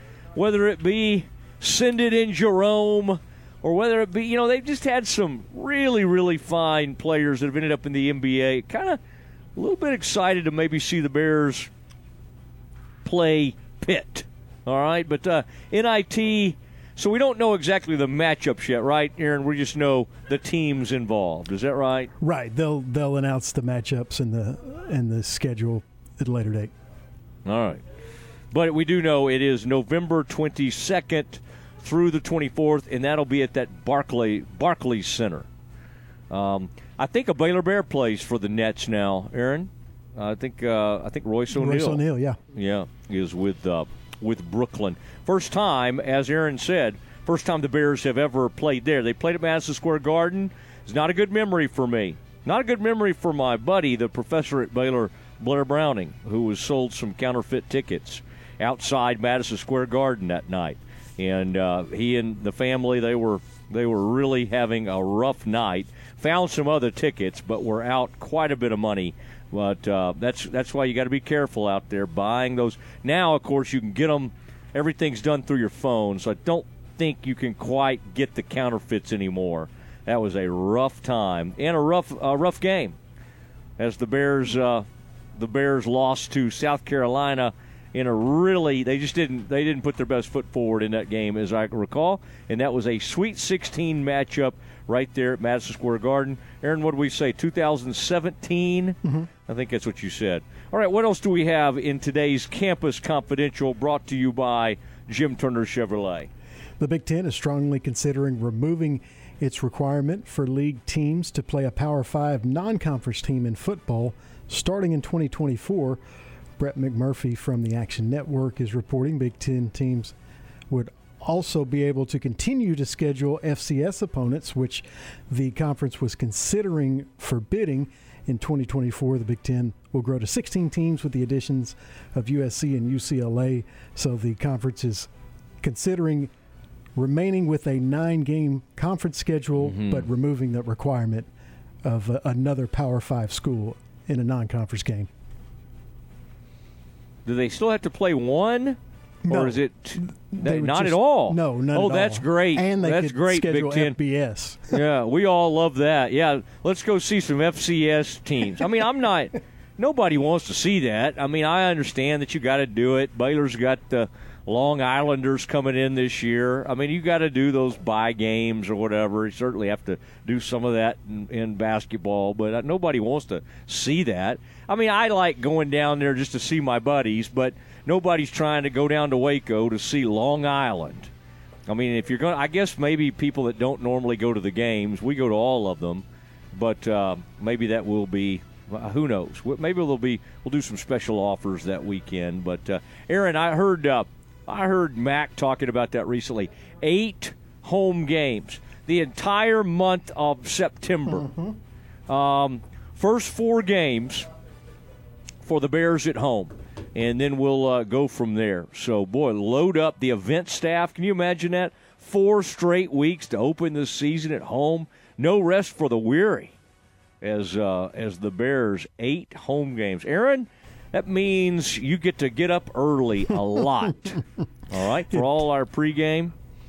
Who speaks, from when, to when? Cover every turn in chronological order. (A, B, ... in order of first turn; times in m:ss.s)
0:00.3-0:09.0 A
0:09.6-0:11.7 A
0:13.0-0:22.1 A
0:22.2-0:26.7 B
0:27.4-0:27.8 A
0:28.5-0:35.5 A
0:36.3-1:23.0 A
0:41.5-0:42.4 B
1:23.8-1:46.3 A
1:39.0-1:39.3 B
1:46.8-1:56.0 B
1:56.6-2:00.1 B
2:00.7-2:15.1 B
2:15.6-2:16.3 B
2:17.0-2:21.3 B
2:19.6-2:20.1 A
2:21.8-2:25.1 B
2:27.3-2:34.0 A
2:29.2-2:34.8 B
2:34.7-3:01.1 A
3:01.7-3:21.3 A
3:21.0-3:21.6 B
3:22.1-3:24.3 A
3:25.4-3:36.6 A
3:37.2-3:46.3 A
3:45.1-3:45.4 B